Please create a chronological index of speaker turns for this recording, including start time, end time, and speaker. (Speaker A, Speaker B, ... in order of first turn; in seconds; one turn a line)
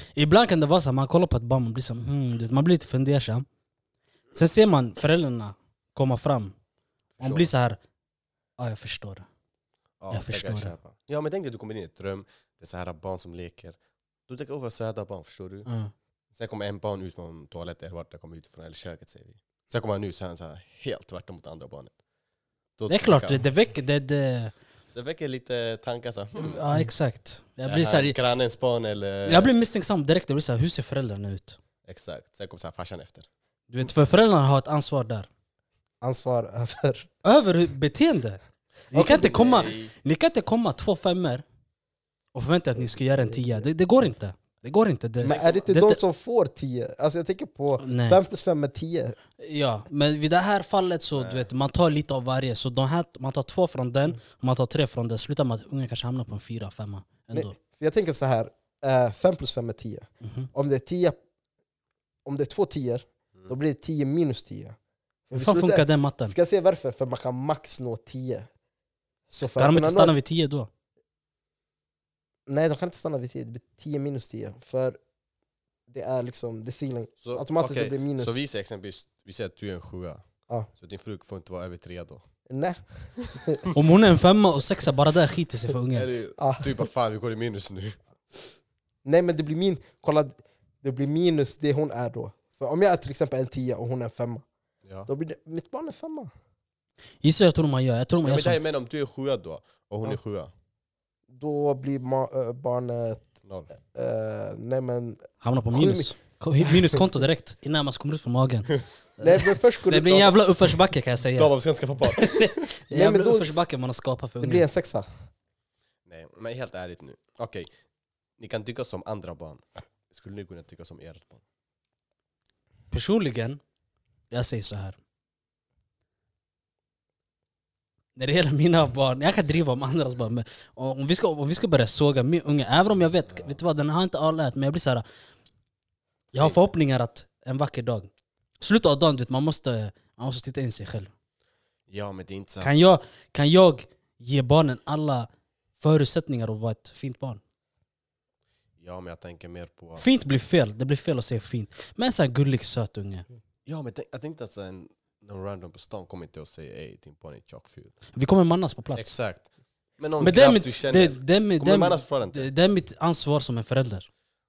Speaker A: 0.1-3.5
Speaker A: 4.3-6.5
Speaker B: 7.2-7.5
Speaker A: 7.2-7.8
Speaker A: 8.6-9.3
Speaker B: 10.0-15.7
Speaker A: 10.1-10.8
Speaker A: 15.7-15.9
Speaker B: 16.3-21.9
Speaker B: 22.8-23.4
Speaker A: 22.9-24.5
Speaker B: 24.9-26.6
Speaker A: 26.4-28.2
Speaker B: 27.6-29.5
Speaker A: 29.2-31.6
Speaker B: 31.9-33.3
Speaker A: 33.7-35.3
Speaker C: 36.0-37.1
Speaker A: 37.2-38.4
Speaker A: 38.9-41.4
Speaker C: 38.9-39.7
Speaker B: 39.2-39.9
Speaker A: 42.3-46.0
Speaker C: 42.8-43.7
Speaker C: 45.2-49.2
Speaker B: 45.2-45.6
Speaker A: 47.8-48.2
Speaker A: 49.4-57.5
Speaker B: 51.1-51.5
Speaker C: 57.3-61.2
Speaker A: 60.2-60.5
Speaker C: 62.2-64.8
Speaker C: 65.3-68.5
Speaker A: 65.3-66.3
Speaker C: 69.3-70.1
Speaker A: 69.4-70.7
Speaker C: 72.5-75.0
Speaker C: 75.9-78.3
Speaker B: 77.2-80.2
Speaker B: 80.8-82.2
Speaker C: 82.5-83.7
Speaker A: 83.7-86.1
Speaker B: 85.9-88.0
Speaker C: 86.4-86.7
Speaker C: 89.0-94.4
Speaker B: 94.8-95.1
Speaker C: 95.1-96.3
Speaker A: 97.2-98.6
Speaker B: 98.2-100.5
Speaker C: 101.3-106.1
Speaker B: 103.4-103.7
Speaker A: 105.4-114.7
Speaker C: 109.2-110.8
Speaker B: 111.3-112.5
Speaker C: 112.9-113.5
Speaker C: 114.4-115.1
Speaker B: 116.0-117.7
Speaker B: 118.4-121.4
Speaker A: 122.9-123.6
Speaker A: 124.3-125.0
Speaker A: 128.2-135.0
Speaker A: 136.3-141.1
Speaker B: 136.3-136.6
Speaker B: 141.9-142.7
Speaker A: 142.6-147.4
Speaker B: 148.8-150.1
Speaker A: 150.0-153.2
Speaker B: 153.7-158.0
Speaker A: 158.1-159.1
Speaker B: 158.9-162.5
Speaker A: 160.2-164.1